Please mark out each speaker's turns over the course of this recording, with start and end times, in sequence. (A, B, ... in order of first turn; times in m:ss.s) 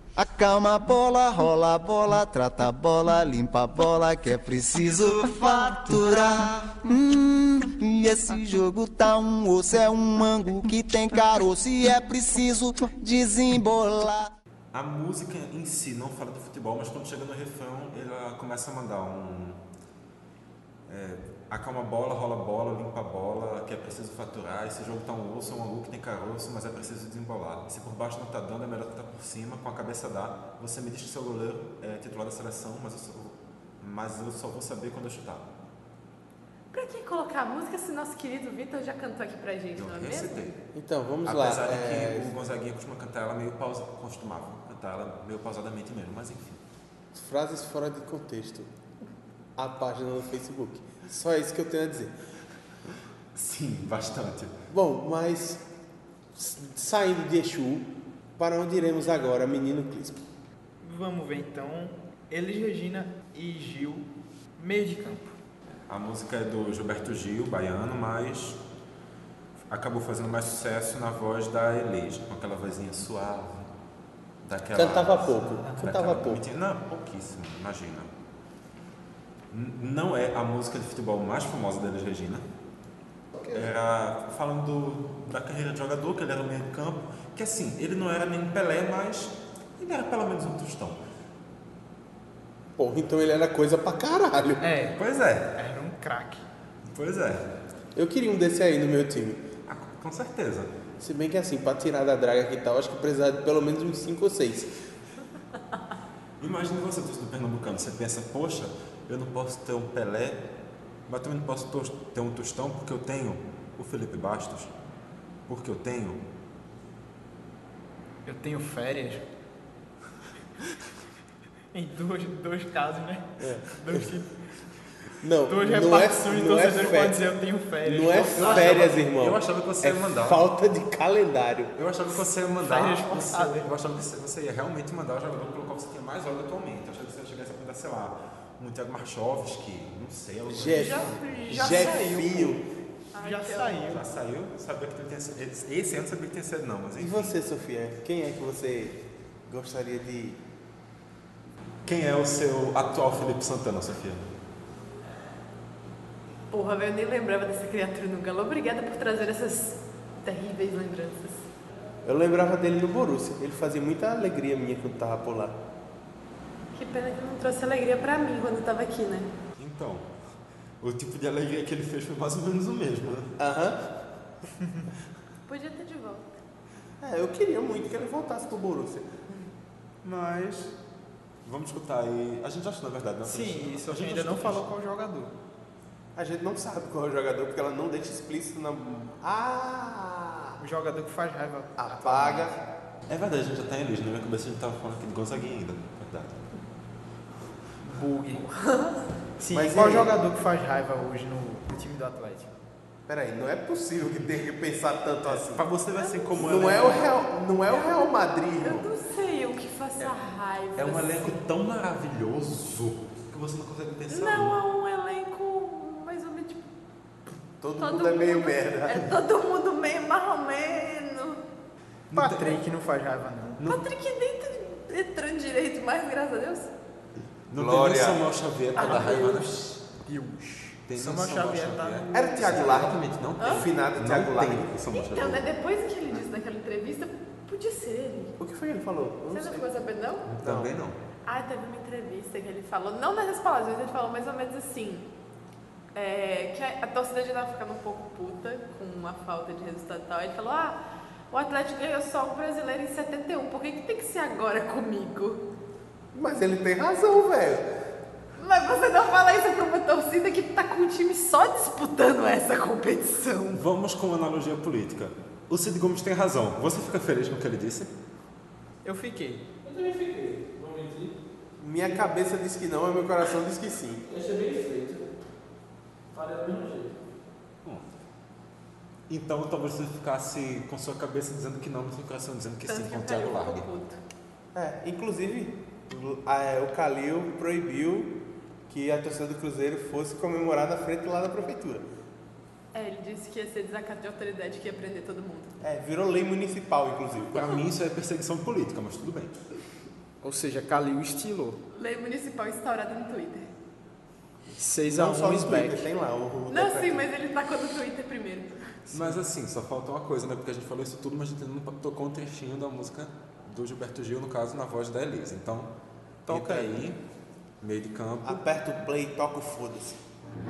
0:00.2-0:14.3 A
0:14.7-0:19.6 B
0:20.9-0:35.5 B
0:36.7-0:40.4 C
0:39.7-0:40.6 B
0:40.7-0:42.3 D
0:41.2-0:46.6 B
0:47.1-0:48.7 D
0:49.6-0:52.1 D
0:53.3-0:54.5 B
0:54.7-0:55.6 D
0:56.3-1:00.2 D
1:00.8-1:05.3 E
1:05.9-1:08.6 B
1:09.7-1:13.7 B
1:14.4-1:18.1 B
1:14.7-1:16.4 D
1:19.5-1:22.4 B
1:23.5-1:31.0 B
1:32.8-1:34.6 D
1:34.6-1:35.0 E
1:35.0-1:35.5 B
1:35.5-1:36.4 E
1:36.8-1:37.5 B
1:38.0-1:39.4 D
1:39.6-1:40.7 B
1:41.0-1:44.7 D
1:46.4-1:50.4 B
1:51.1-1:54.7 B
1:55.5-1:56.2 B
1:58.2-1:59.2 E
2:01.7-2:04.3 E
2:03.4-2:04.0 D
2:05.2-2:07.2 D
2:05.5-2:09.0 E
2:07.8-2:11.7 D
2:08.4-2:10.4 B
2:11.8-2:21.2 B
2:12.6-2:13.7 E
2:20.5-2:22.6 D
2:20.8-2:22.6 E
2:23.1-2:23.9 C
2:23.2-2:24.0 E
2:23.9-2:27.3 B
2:27.0-2:30.4 D
2:31.8-2:34.3 B
2:36.5-2:41.5 C
2:42.0-2:45.6 D
2:46.7-2:49.3 C
2:49.6-2:50.1 B
2:50.8-2:53.3 B
2:53.4-2:53.8 D
2:54.6-2:54.8 E
2:55.5-2:56.3 C
2:57.0-2:59.1 D
3:00.0-3:00.7 B
3:01.4-3:04.6 B
3:03.2-3:05.3 E
3:06.2-3:10.6 D
3:10.6-3:12.6 E
3:11.8-3:12.6 D
3:13.1-3:16.4 B
3:17.8-3:18.4 E
3:18.5-3:19.0 C
3:19.4-3:22.5 E
3:19.5-3:20.2 D
3:23.1-3:25.6 D
3:25.5-3:27.1 B
3:26.0-3:26.5 C
3:26.4-3:28.9 D
3:28.6-3:31.4 C
3:30.8-3:34.6 B
3:34.1-3:36.6 C
3:37.6-3:39.1 D
3:37.8-3:41.4 C
3:42.1-3:42.6 B
3:42.1-3:43.6 E
3:43.6-3:46.7 C
3:47.5-3:49.8 B
3:47.5-3:48.3 D
3:48.8-3:49.7 C
3:50.0-3:52.3 E
3:50.9-3:55.4 B
3:52.1-3:54.7 D
3:53.4-3:53.6 C
3:54.9-3:58.3 C
3:58.4-3:59.7 D
3:59.3-4:00.3 C
4:00.2-4:01.0 B
4:00.4-4:00.7 D
4:01.2-4:05.1 C
4:05.9-4:10.8 C
4:11.3-4:15.4 C
4:16.1-4:17.7 D
4:18.4-4:23.6 C
4:23.5-4:27.9 B
4:28.8-4:29.5 E
4:31.6-4:34.0 D
4:39.1-4:43.7 B
4:42.6-4:44.0 C
4:44.5-4:48.2 D
4:48.7-4:51.8 D
4:52.7-4:55.5 C
4:55.6-4:57.4 D
4:57.3-4:59.4 B
5:00.2-5:01.6 E
5:01.7-5:03.5 C
5:04.6-5:05.8 E
5:04.8-5:07.1 D
5:06.5-5:08.7 C
5:08.9-5:09.2 E
5:08.9-5:15.7 B
5:16.2-5:17.0 B
5:16.3-5:16.8 D
5:17.6-5:18.4 B
5:18.2-5:20.0 D